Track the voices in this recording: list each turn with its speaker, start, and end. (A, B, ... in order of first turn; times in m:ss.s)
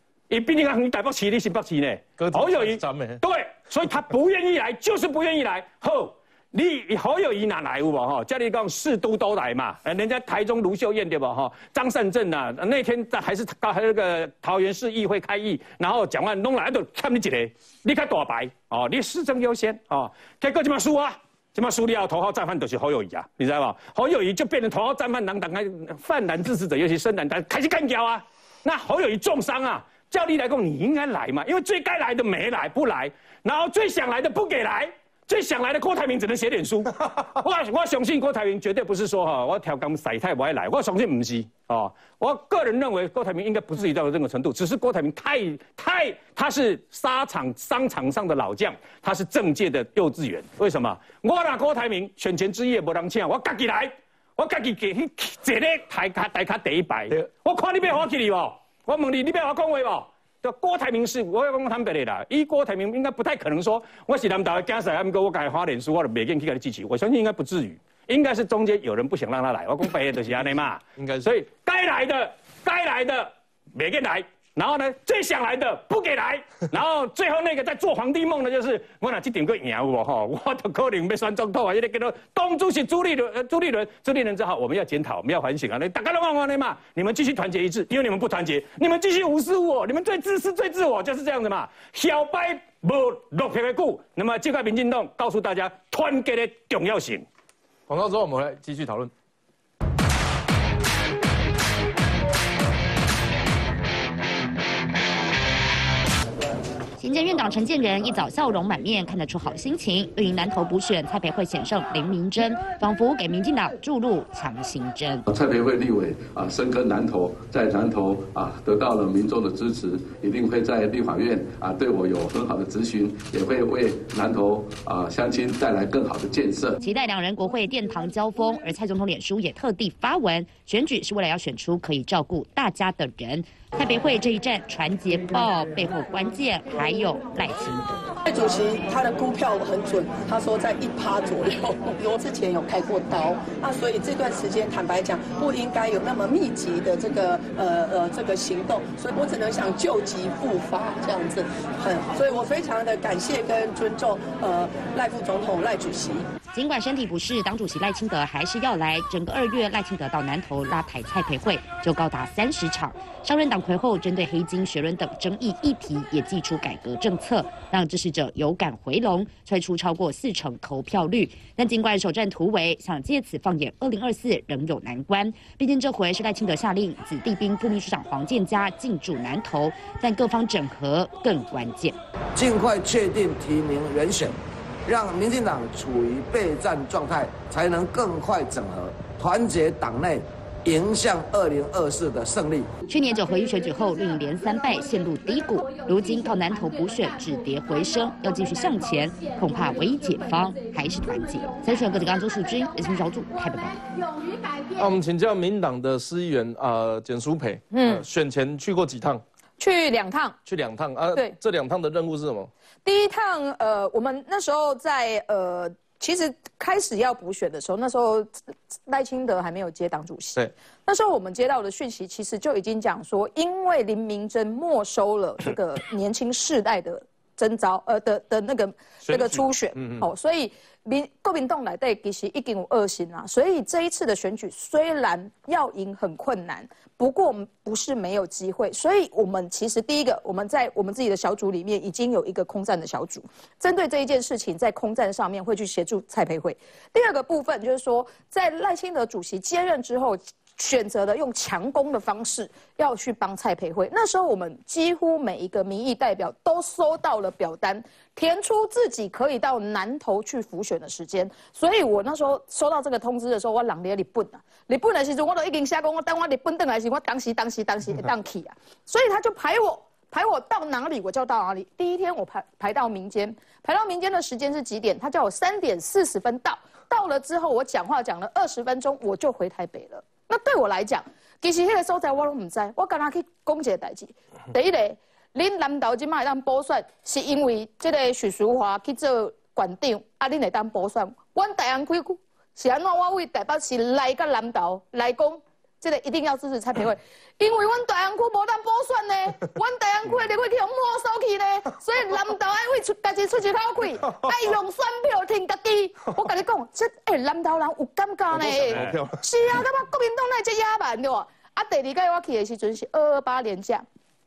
0:00.3-1:37.2 A
0:02.2-0:03.2 B
1:11.0-1:11.3 B
1:37.9-1:39.1 B
1:47.0-1:55.2 C
1:55.3-2:06.8 D
2:06.8-2:17.9 C
2:18.2-2:36.3 E
2:36.5-3:02.0 C
3:02.4-3:12.7 F
3:12.9-3:23.8 C
3:24.8-3:29.2 B
3:27.7-3:28.0 G
3:29.6-3:30.4 G
3:30.4-3:32.5 B
3:32.8-3:38.3 G
3:38.9-5:13.8 G
3:49.0-3:50.0 B
5:08.3-5:09.2 B